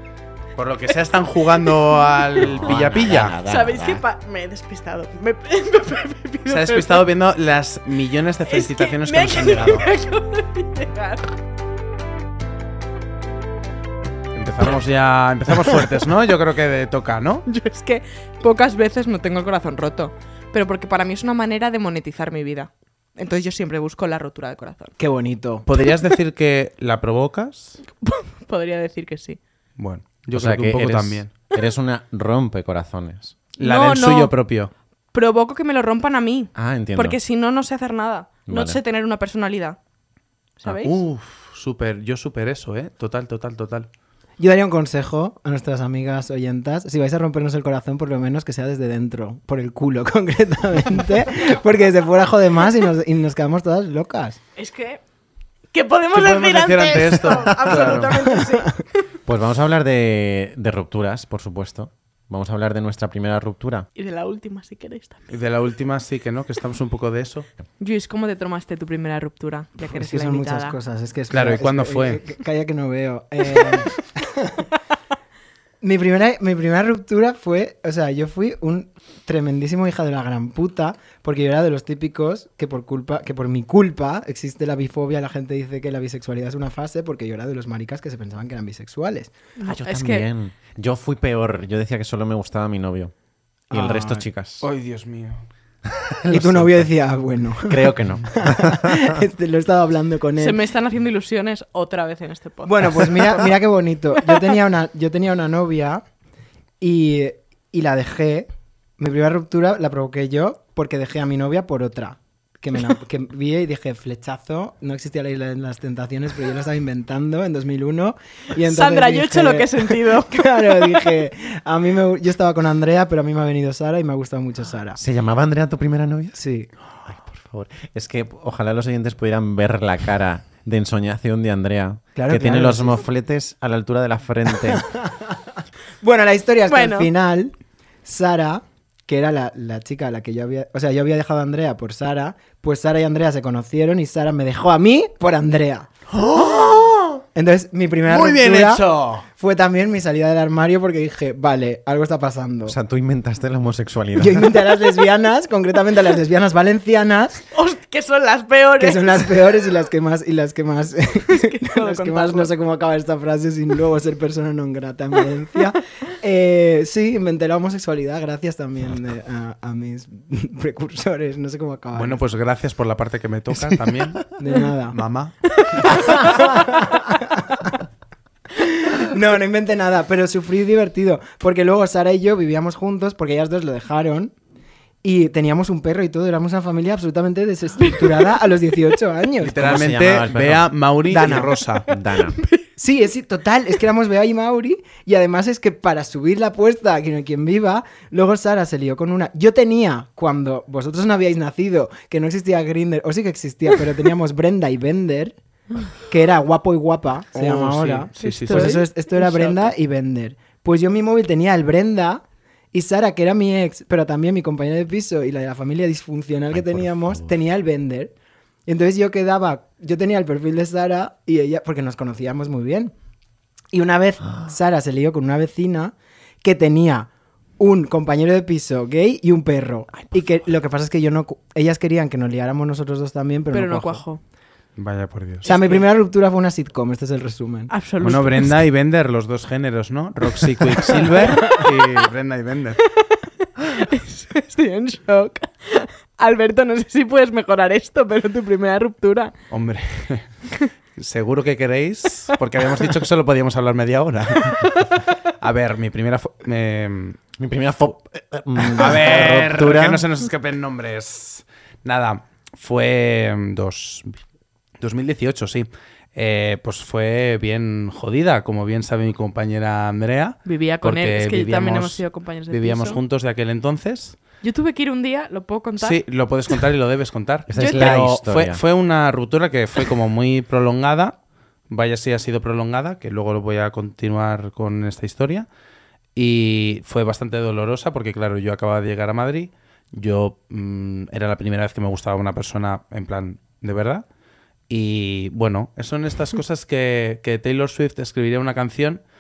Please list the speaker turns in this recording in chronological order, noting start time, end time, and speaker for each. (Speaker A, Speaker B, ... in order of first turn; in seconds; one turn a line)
Speaker A: 0.6-3.4
Speaker B: 1.6-1.9
Speaker C: 2.4-4.0
Speaker B: 3.4-7.0
Speaker A: 6.5-9.8
Speaker B: 8.5-11.3
Speaker A: 14.3-17.4
Speaker B: 17.5-24.9
Speaker D: 25.0-25.7
Speaker A: 25.6-27.8
Speaker B: 28.0-29.4
Speaker A: 29.8-31.3
Speaker C: 30.3-33.4
Speaker B: 33.6-34.3
Speaker A: 33.6-34.7
Speaker B: 35.1-39.8
Speaker C: 36.5-37.2
Speaker C: 38.5-38.8
Speaker B: 40.6-41.0
Speaker A: 40.6-43.9
Speaker D: 44.4-54.4
Speaker B: 54.5-55.0
Speaker B: 55.7-59.0
Speaker A: 56.1-58.3
Speaker C: 59.2-63.9
Speaker B: 64.0-65.3
Speaker A: 65.3-67.5
Speaker B: 67.8-70.8
Speaker D: 69.8-74.7
Speaker A: 71.3-72.2
Speaker D: 75.8-89.3
Speaker B: 89.6-90.3
Speaker C: 89.6-93.1
Speaker D: 93.7-94.2
Speaker C: 93.7-94.7
Speaker A: 94.6-95.4
Speaker C: 95.8-96.9
Speaker D: 96.3-100.6
Speaker C: 97.6-99.2
Speaker B: 100.4-103.5
Speaker D: 102.6-106.0
Speaker B: 104.2-104.5
Speaker D: 106.8-125.0
Speaker B: 118.6-121.1
Speaker C: 125.0-126.4
Speaker D: 126.3-126.7
Speaker C: 127.0-134.9
Speaker D: 132.1-133.0
Speaker D: 134.7-135.2
Speaker D: 136.0-145.9
Speaker B: 136.7-137.1
Speaker A: 146.1-147.2
Speaker D: 147.3-152.8
Speaker A: 148.1-149.2
Speaker C: 152.6-154.6
Speaker D: 154.2-157.4
Speaker B: 157.5-159.3
Speaker D: 158.8-172.2
Speaker B: 161.3-162.5
Speaker A: 171.9-174.3
Speaker C: 173.5-173.8
Speaker D: 174.4-175.0
Speaker A: 174.9-176.2
Speaker B: 175.5-176.4
Speaker D: 176.1-177.7
Speaker D: 178.5-184.3
Speaker D: 185.0-189.6
Speaker B: 187.8-188.5
Speaker A: 189.4-191.9
Speaker C: 189.5-190.8
Speaker D: 191.1-191.6
Speaker C: 191.9-192.4
Speaker B: 192.1-192.7
Speaker D: 192.8-205.4
Speaker D: 205.9-218.1
Speaker A: 207.3-208.9
Speaker B: 208.2-209.5
Speaker C: 216.5-217.3
Speaker D: 218.7-222.9
Speaker D: 223.7-234.0
Speaker B: 233.5-234.2
Speaker A: 234.8-235.5
Speaker B: 235.4-235.8
Speaker D: 235.4-237.7
Speaker B: 237.7-238.5
Speaker A: 238.0-242.8
Speaker B: 241.1-241.8
Speaker B: 242.8-249.3
Speaker A: 249.5-250.3
Speaker A: 250.9-257.2
Speaker C: 257.4-260.0
Speaker A: 258.6-264.2
Speaker A: 264.8-274.2
Speaker B: 270.4-273.0
Speaker B: 274.4-276.0
Speaker A: 275.8-285.5
Speaker C: 277.5-278.6
Speaker B: 277.5-277.9
Speaker A: 286.1-294.1
Speaker A: 294.7-299.0